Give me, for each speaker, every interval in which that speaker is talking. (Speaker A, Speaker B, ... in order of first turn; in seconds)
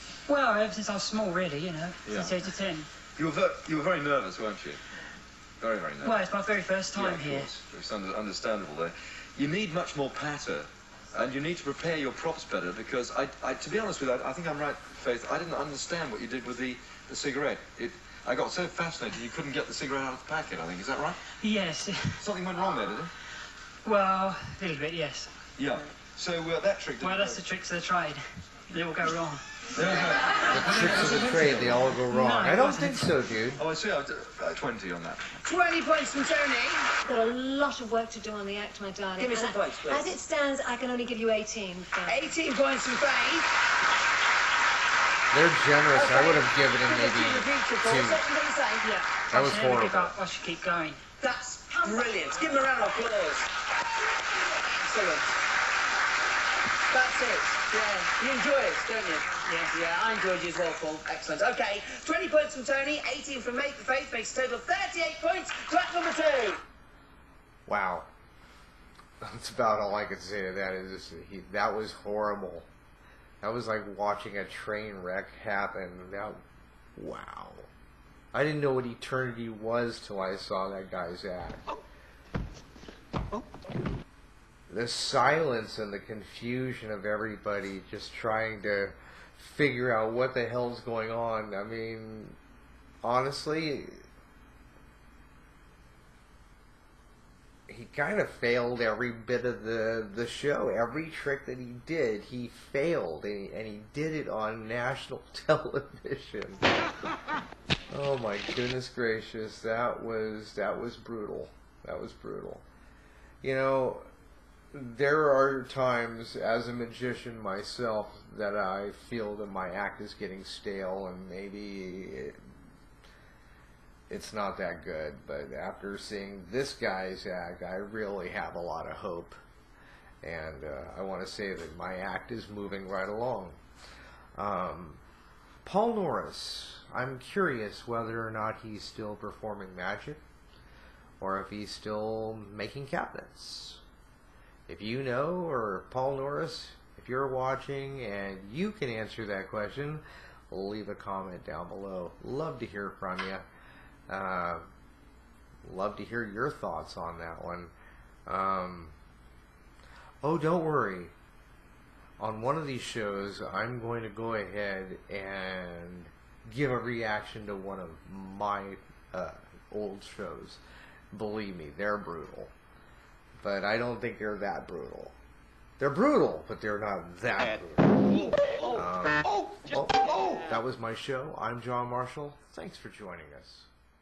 Speaker A: 0.3-2.9, 6.0-7.5, 21.4-22.2, 23.8-25.3, 27.0-29.4, 30.7-33.1, 48.8-51.0, 59.4-59.7
Speaker B: 2.0-2.4, 3.1-4.8, 5.6-6.2, 6.9-21.2, 22.2-23.1, 25.6-27.4, 29.7-31.9, 33.6-35.3
Speaker C: 30.5-33.6, 45.3-48.2, 49.3-50.1, 67.7-68.1, 69.2-72.7, 73.4-76.4, 77.0-77.7, 78.3-81.6, 84.7-92.4, 93.0-94.0, 97.7-106.6, 107.9-112.6, 113.4-114.0, 114.7-122.4, 124.1-129.4, 130.2-133.6, 134.3-135.0, 135.6-140.2, 141.2-143.8, 144.7-153.4, 154.1-154.7, 155.6-157.7, 158.3-158.9, 160.2-161.1, 162.2-172.5, 173.4-175.1, 175.8-183.7
Speaker D: 35.4-36.9, 39.2-40.1, 42.0-43.5, 45.9-48.9, 51.2-53.5, 54.4-55.3, 56.9-66.6
Speaker E: 37.1-42.2